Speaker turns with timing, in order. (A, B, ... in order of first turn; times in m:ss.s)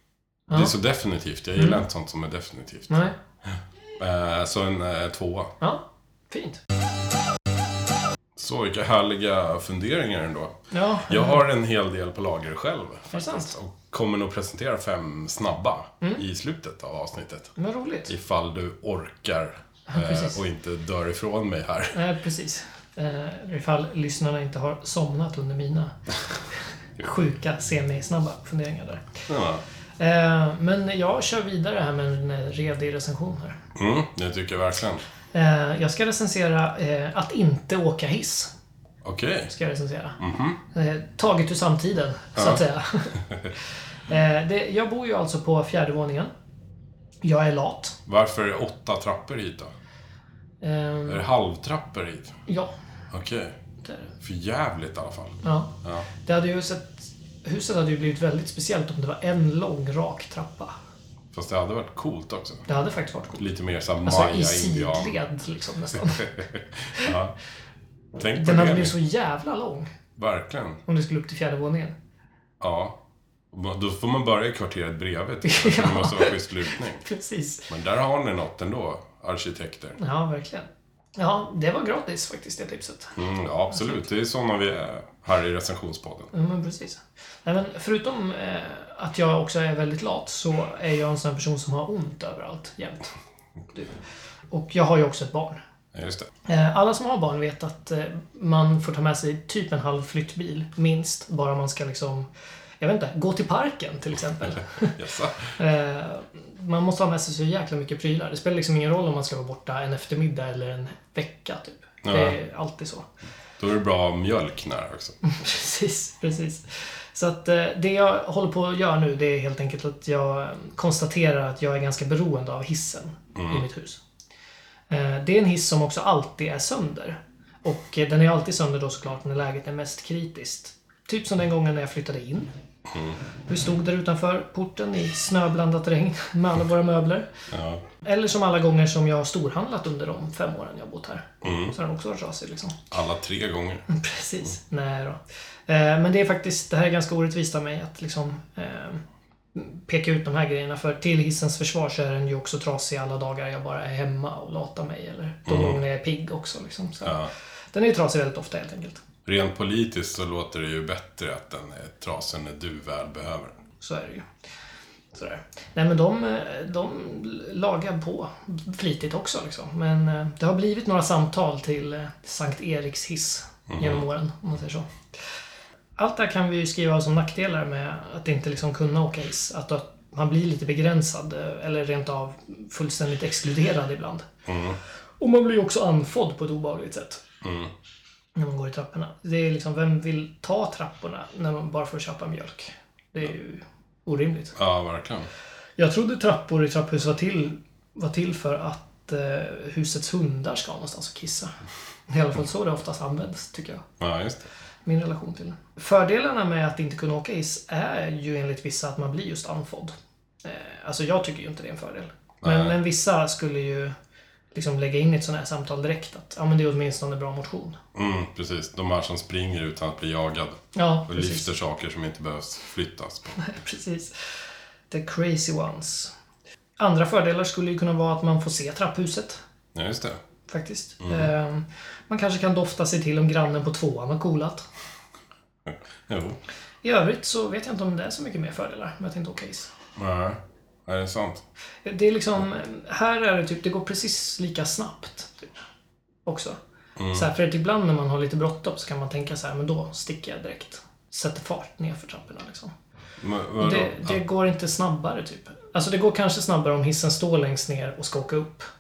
0:00.5-0:05.5 A
0:01.6-0:01.8 B
0:02.9-0:03.2 B
0:05.6-0:06.6 B
0:08.4-0:17.5 A
0:10.7-0:11.4 B
0:13.1-0:13.5 B
0:17.6-0:18.1 B
0:18.1-0:22.0 A
0:19.9-0:20.4 B
0:21.9-0:26.0 B
0:26.5-0:29.3 B
0:29.3-0:29.6 A
0:30.0-0:33.6 B
0:33.8-0:35.0 A
0:35.3-0:38.5 B
0:39.0-0:39.5 A
0:39.5-0:43.2 B
0:40.2-0:40.6 A
0:42.4-0:42.6 A
0:43.2-0:43.5 A
0:44.1-0:46.3 B
0:47.2-0:48.0 B
0:48.1-0:49.7 A
0:50.6-0:51.2 B
0:51.1-0:52.4 A
0:52.5-0:52.7 B
0:53.1-0:53.6 A
0:53.8-0:54.1 B
0:54.2-0:56.1 A
0:55.4-1:00.8 B
1:01.3-1:02.6 A
1:02.7-1:03.5 B
1:03.4-1:05.2 A
1:04.0-1:06.3 B
1:06.2-1:07.4 A
1:08.2-1:09.0 A
1:08.4-1:09.9 B
1:10.2-1:10.8 A
1:10.9-1:12.0 B
1:12.6-1:13.0 A
1:13.5-1:17.1 A
1:15.4-1:17.7 B
1:17.7-1:20.0 A
1:20.0-1:23.2 B
1:23.2-1:26.3 A
1:23.7-1:24.0 B
1:26.3-1:33.1 B
1:33.7-1:34.0 B
1:34.5-1:35.6 B
1:35.9-1:36.3 A
1:36.4-1:42.3 B
1:42.8-1:45.0 B
1:45.0-1:45.6 A
1:45.6-1:53.1 B
1:52.0-1:52.4 A
1:53.6-1:55.2 A
1:55.2-2:04.0 B
2:03.4-2:03.6 A
2:04.9-2:12.5 B
2:12.9-2:13.2 A
2:13.5-2:17.3 B
2:17.5-2:17.8 A
2:18.0-2:22.8 B
2:21.4-2:21.8 A
2:22.9-2:23.8 A
2:23.9-2:29.0 B
2:29.6-2:39.0 B
2:35.5-2:35.8 A
2:37.0-2:37.3 A
2:39.3-2:43.6 A
2:43.8-2:44.3 B
2:45.1-2:54.9 B
2:53.7-2:54.0 A
2:56.0-3:04.3 B
3:04.5-3:04.8 A
3:05.2-3:07.2 B
3:07.4-3:07.7 A
3:08.4-3:14.6 B
3:14.6-3:15.3 A
3:15.8-3:21.5 B
3:22.1-3:23.9 B
3:24.0-3:24.5 A
3:24.9-3:34.0 B
3:32.4-3:32.8 A
3:34.5-3:37.8 B
3:38.0-3:43.4 A
3:40.8-3:41.5 B
3:43.4-3:44.4 B
3:44.9-3:46.1 B
3:46.8-3:49.4 B
3:49.8-3:50.2 A
3:50.5-3:54.7 B
3:51.0-3:51.3 A
3:55.6-3:56.4 A
3:56.8-3:59.7 B
4:00.0-4:01.4 A
4:01.8-4:05.6 B
4:06.2-4:06.6 B
4:07.0-4:07.3 A
4:07.1-4:12.7 B
4:13.2-4:14.2 A
4:13.6-4:18.7 B